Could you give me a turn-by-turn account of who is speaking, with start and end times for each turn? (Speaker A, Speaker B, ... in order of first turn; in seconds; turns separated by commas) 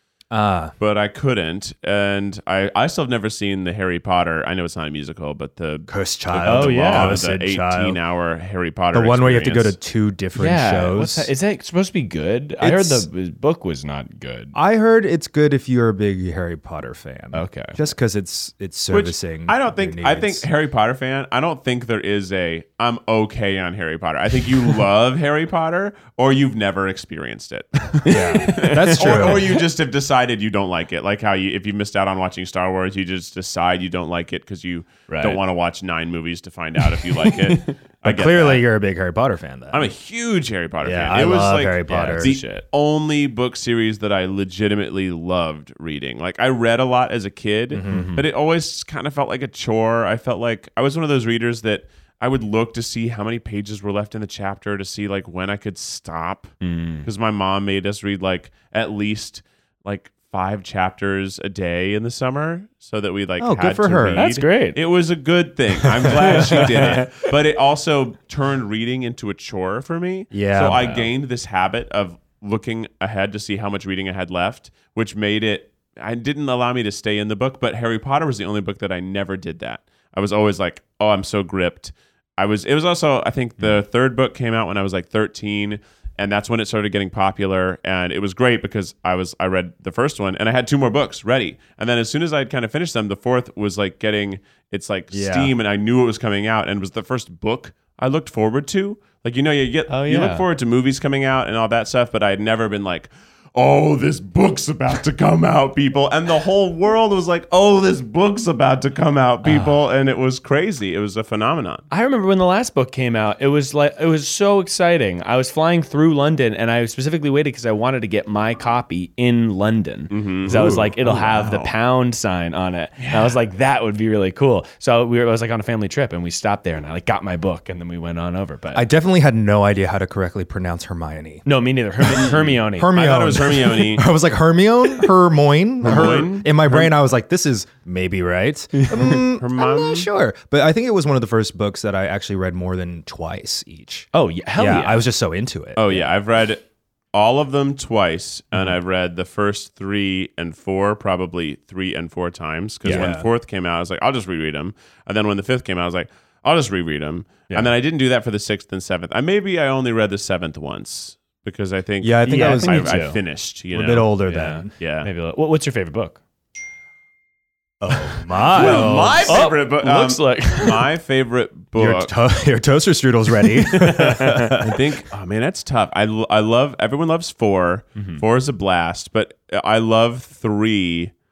Speaker A: 0.3-0.8, Speaker B: 0.8-9.8, Speaker A: 5.9-8.0, Speaker C: 6.5-7.2, Speaker A: 8.9-11.3, Speaker C: 10.3-14.5, Speaker A: 12.6-13.1, Speaker A: 14.5-20.5, Speaker C: 17.3-17.8, Speaker B: 18.9-38.6, Speaker C: 28.1-29.6, Speaker A: 28.1-29.6, Speaker C: 35.1-35.4, Speaker C: 37.0-37.8, Speaker A: 38.0-39.9, Speaker B: 39.7-56.5, Speaker A: 40.8-42.3, Speaker C: 41.9-42.6, Speaker A: 47.7-48.1, Speaker C: 47.9-48.2, Speaker C: 56.6-57.1, Speaker B: 57.0-111.8, Speaker A: 63.4-64.3, Speaker C: 64.2-64.8, Speaker A: 65.9-67.0, Speaker C: 66.1-67.2, Speaker A: 70.3-71.1, Speaker A: 95.1-95.5, Speaker C: 99.9-100.5, Speaker C: 109.4-109.7, Speaker C: 111.9-128.9, Speaker B: 120.1-121.7, Speaker A: 120.5-121.0, Speaker B: 123.0-123.4, Speaker A: 128.7-131.5, Speaker C: 131.4-132.9, Speaker A: 132.0-146.1, Speaker B: 132.2-134.1, Speaker B: 135.8-136.5, Speaker C: 135.9-136.1, Speaker C: 138.7-139.2, Speaker B: 139.2-140.1, Speaker C: 144.1-145.1, Speaker B: 145.8-164.1, Speaker C: 152.8-153.1, Speaker A: 152.8-153.3, Speaker A: 162.0-163.0, Speaker C: 162.2-163.2, Speaker A: 163.7-164.7, Speaker C: 164.3-166.2, Speaker B: 164.8-165.1, Speaker A: 167.8-169.5, Speaker C: 168.0-170.9, Speaker B: 168.5-172.1, Speaker A: 171.8-174.8, Speaker C: 173.4-174.6, Speaker B: 174.6-181.1